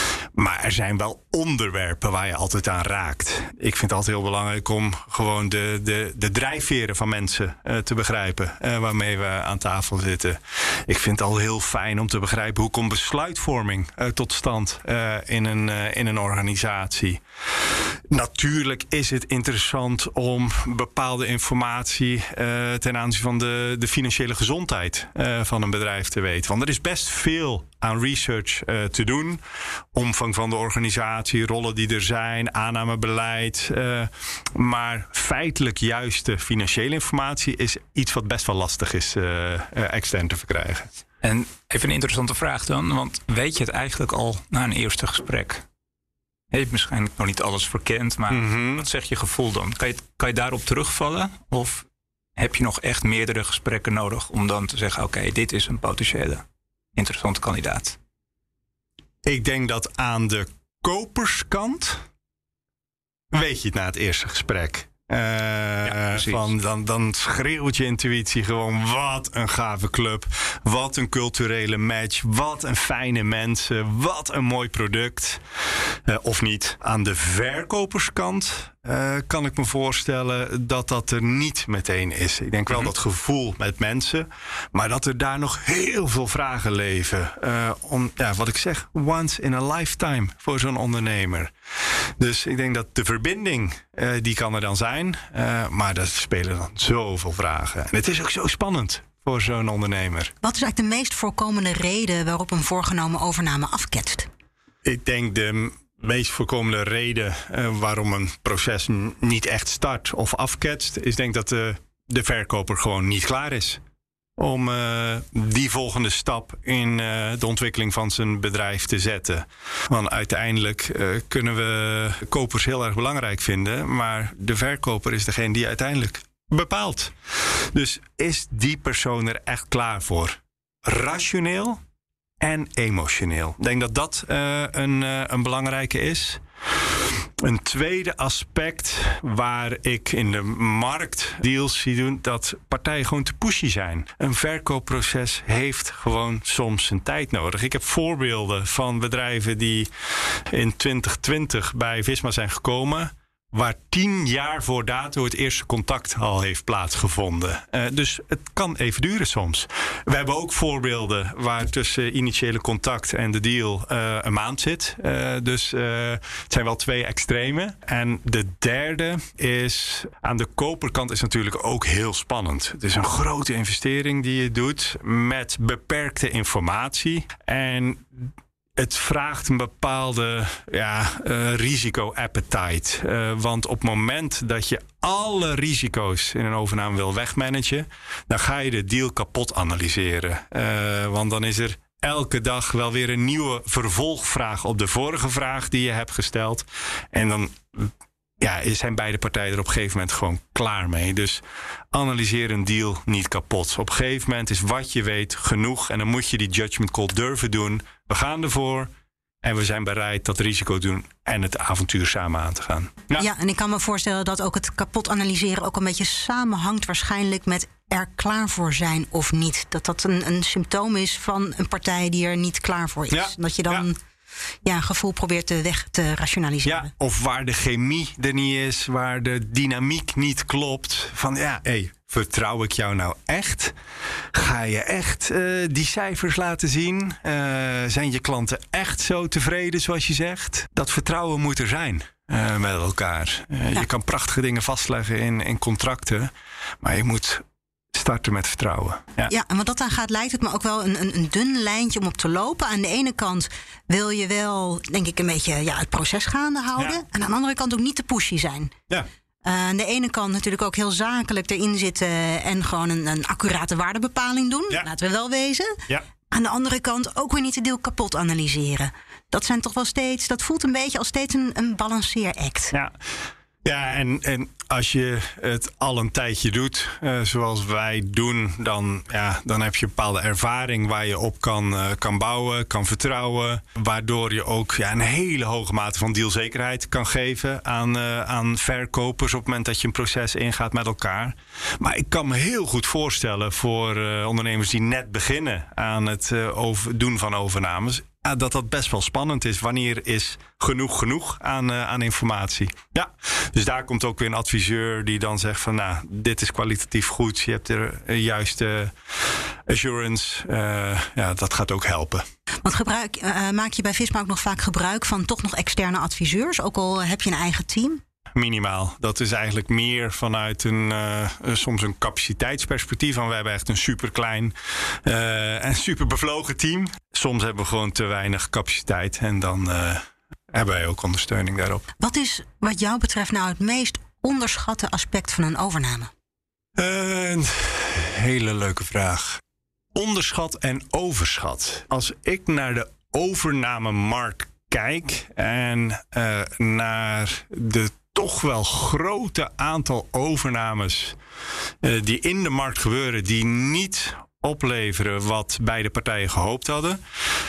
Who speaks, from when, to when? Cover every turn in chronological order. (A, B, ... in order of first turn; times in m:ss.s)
0:00.3-0:17.2 A
0:18.1-0:29.4 A
0:29.9-0:40.9 A
0:41.2-0:45.6 B
0:46.5-0:51.8 B
0:48.3-0:48.9 A
0:52.4-0:56.4 B
0:57.0-0:58.0 B
0:59.2-1:02.0 A
1:03.3-1:15.4 A
1:06.0-1:06.5 B
1:16.0-1:31.5 A
1:32.2-1:40.3 A
1:40.4-1:44.3 C
1:44.8-1:53.8 A
1:54.4-2:11.8 A
2:12.4-3:28.9 A
3:29.4-3:33.3 A
3:33.2-3:44.0 C
3:43.1-3:43.8 A
3:44.6-3:46.9 C
3:46.6-3:53.8 A
3:54.3-4:09.3 A
4:09.3-4:18.8 C
4:19.4-4:25.8 C
4:26.3-4:32.7 C
4:33.6-5:08.9 A
5:09.7-5:12.2 A
5:12.6-5:18.0 C
5:18.3-5:31.9 A
5:32.0-5:36.1 C
5:36.8-5:39.4 A
5:39.9-5:51.2 A
5:51.8-5:57.0 A